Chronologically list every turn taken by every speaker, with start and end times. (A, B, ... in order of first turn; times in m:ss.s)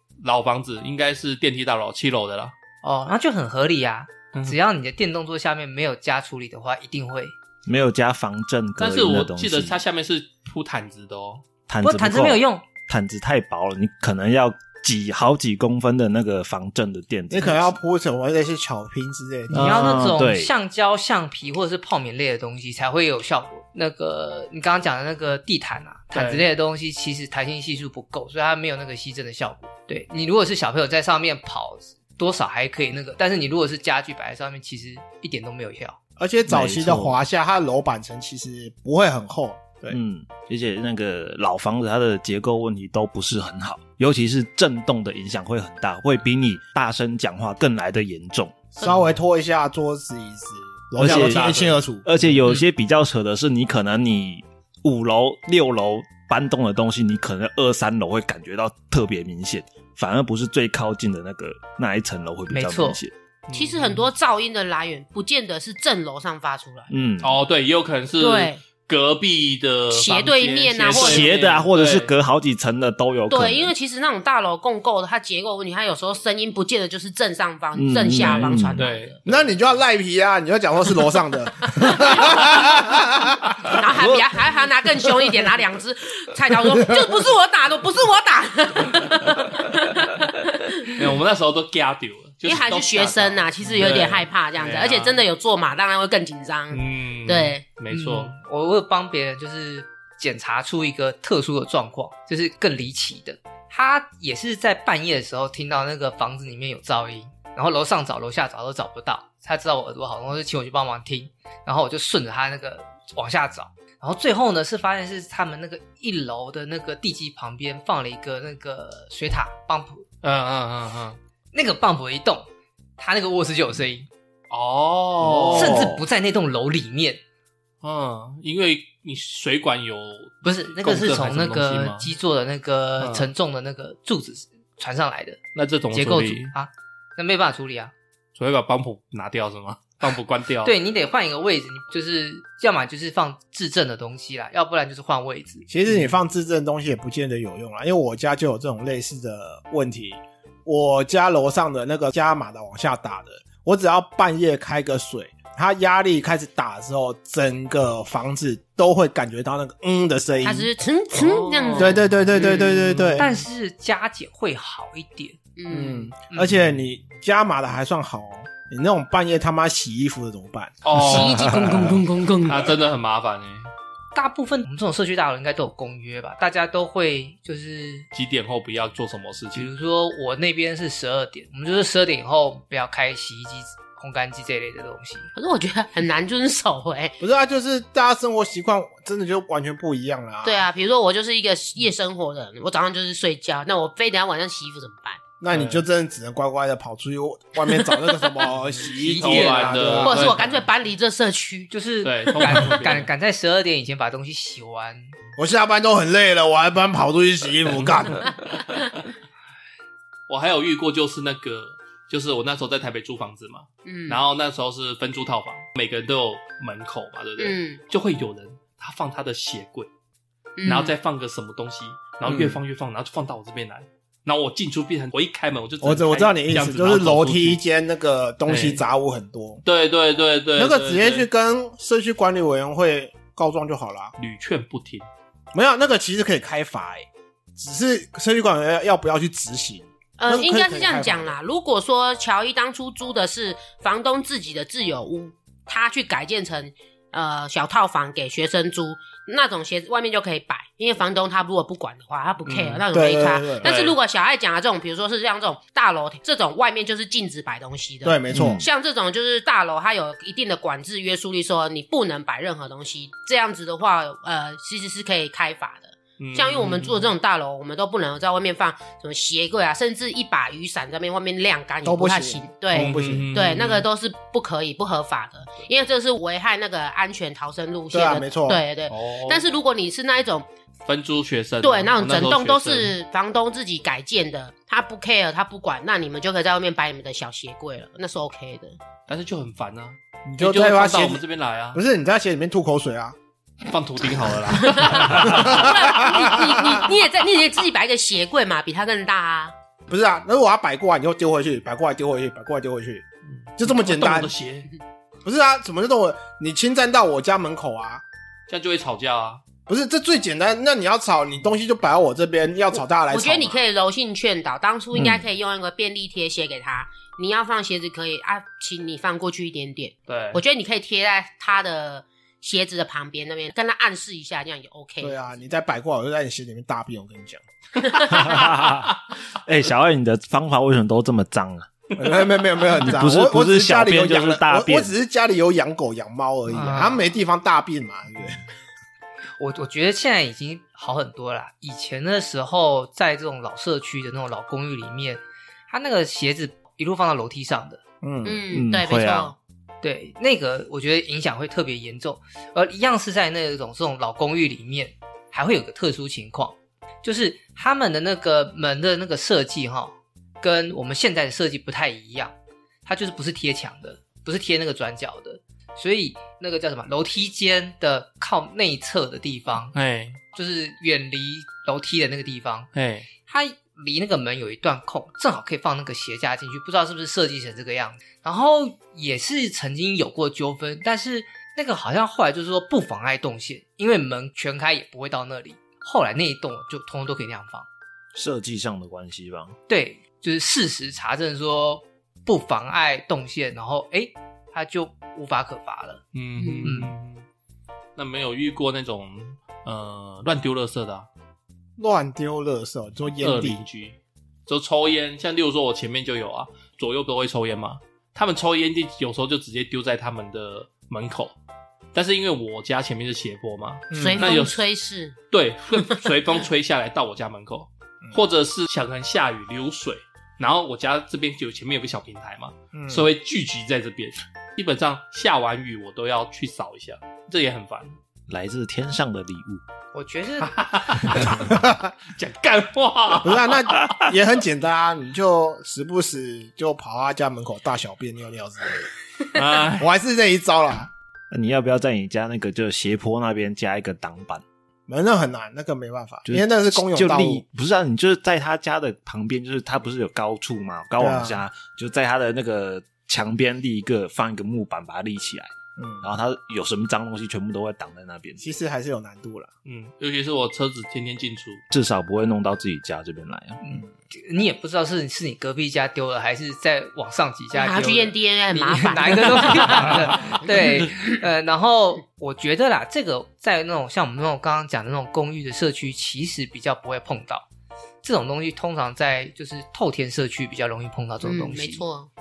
0:00.2-0:02.5 A
0:02.8-0:07.4 B
0:07.6-0:09.8 C
0:08.8-0:11.4 A
0:11.7-0:17.8 C
0:11.8-0:12.7 B
0:17.3-0:19.8 D
0:19.5-0:20.5 C
0:19.5-0:36.0 B
0:26.1-0:26.4 A
0:36.2-0:40.0 D
0:36.5-0:37.2 C
0:39.9-0:48.8 C
0:48.8-0:52.1 D
0:51.0-1:03.1 C
1:02.5-1:03.0 B
1:03.5-1:04.1 A
1:03.5-1:06.9 E
1:06.9-1:07.4 C
1:07.2-1:12.1 A
1:08.2-1:08.6 E
1:09.9-1:11.3 E
1:10.9-1:13.7 C
1:13.3-1:19.2 E
1:17.8-1:18.9 C
1:18.2-1:19.4 A
1:19.2-1:23.7 D
1:21.6-1:22.6 E
1:23.6-1:31.0 E
1:26.6-1:27.0 D
1:30.8-1:35.2 A
1:32.4-1:37.6 E
1:36.7-1:38.3 A
1:37.9-2:00.0 B
2:00.2-2:01.2 A
2:01.5-2:02.5 B
2:03.0-2:04.1 B
2:04.5-2:05.9 A
2:05.2-2:06.0 C
2:05.5-2:07.2 B
2:07.8-2:12.1 A
2:10.4-2:15.4 B
2:13.0-2:13.3 A
2:15.6-2:16.5 A
2:15.9-2:17.9 B
2:18.4-2:20.7 A
2:20.6-2:25.7 B
2:25.7-2:40.7 D
2:25.9-2:26.1 A
2:40.4-2:42.8 E
2:41.2-2:43.4 A
2:41.8-2:43.3 D
2:43.2-2:45.4 B
2:45.6-2:46.1 E
2:45.7-2:52.0 D
2:46.3-2:46.6 B
2:50.8-2:51.8 A
2:51.0-2:52.7 E
2:52.4-2:53.7 A
2:54.1-2:58.1 B
2:58.1-2:59.7 A
2:59.5-3:05.3 B
3:05.4-3:07.2 E
3:07.2-3:10.6 D
3:10.4-3:15.2 E
3:15.4-3:20.3 D
3:15.5-3:15.8 A
3:17.7-3:18.2 E
3:18.8-3:20.6 A
3:19.0-3:20.3 B
3:20.0-3:21.7 E
3:21.7-3:25.1 B
3:22.0-3:23.1 A
3:25.4-3:28.3 D
3:27.7-3:28.7 A
3:30.3-3:39.9 A
3:33.8-3:34.2 E
3:37.4-3:37.8 E
3:40.6-3:40.9 E
3:40.6-3:47.6 A
3:42.3-3:42.6 D
3:45.8-3:49.6 D
3:48.5-3:48.8 A
3:49.6-3:51.3 A
3:50.6-3:54.1 D
3:54.2-3:55.1 A
3:55.5-3:57.1 D
3:57.6-4:01.4 D
4:00.2-4:40.5 E
4:12.4-4:12.8 A
4:12.9-4:13.7 D
4:13.6-4:14.0 A
4:18.0-4:18.6 D
4:18.3-4:18.6 C
4:26.2-4:27.1 A
4:31.8-4:33.3 D
4:32.7-4:33.9 A
4:37.9-4:38.6 D
4:38.9-4:39.4 A
4:40.9-4:43.0 A
4:41.6-4:48.8 E
4:49.1-4:51.8 A
4:50.3-4:51.2 D
4:51.7-4:53.2 D
4:53.7-4:55.8 A
4:54.6-4:59.5 E
4:54.9-4:56.9 D
4:59.9-5:03.0 D
5:03.3-5:04.7 A
5:03.6-5:04.3 D
5:05.2-5:08.0 D
5:08.5-5:09.4 A
5:09.7-5:13.6 D
5:13.1-5:25.4 E
5:15.0-5:15.2 C
5:20.1-5:20.4 A
5:25.0-5:27.4 D
5:27.8-5:28.2 E
5:28.0-5:31.7 C
5:32.0-5:38.4 D
5:32.8-5:34.9 C
5:36.5-5:37.1 B
5:39.4-5:47.8 B
5:48.0-5:48.4 D
5:48.2-5:49.4 E
5:48.5-5:49.3 C
5:49.8-6:02.3 B
6:02.8-6:09.8 B
6:09.7-6:10.2 A
6:10.3-6:12.7 B
6:12.8-6:13.1 A
6:13.2-6:27.7 B
6:28.1-6:29.6 C
6:29.7-6:36.0 B
6:36.1-6:37.3 A
6:36.4-6:36.7 E
6:36.6-6:36.9 B
6:38.0-6:41.1 A
6:41.8-6:43.6 D
6:43.2-6:51.4 A
6:51.9-6:54.6 A
6:53.9-6:54.3 D
6:54.0-6:55.2 E
6:55.3-7:08.0 A
6:55.8-6:56.0 E
7:02.7-7:03.1 D
7:08.3-7:09.6 C
7:09.9-7:10.5 B
7:10.4-7:11.6 A
7:11.5-7:11.9 D
7:12.1-7:14.0 A
7:13.2-7:18.9 D
7:19.3-7:19.9 A
7:19.7-7:20.9 D
7:21.3-7:24.4 C
7:24.9-7:27.4 D
7:26.3-7:35.5 C
7:31.0-7:31.4 D
7:35.8-7:36.1 D
7:36.0-7:38.4 C
7:38.4-7:39.5 D
7:39.6-7:41.6 A
7:41.7-7:43.6 C
7:43.6-7:57.5 B
7:47.5-7:50.9 E
7:58.0-8:01.8 B
8:01.2-8:02.1 E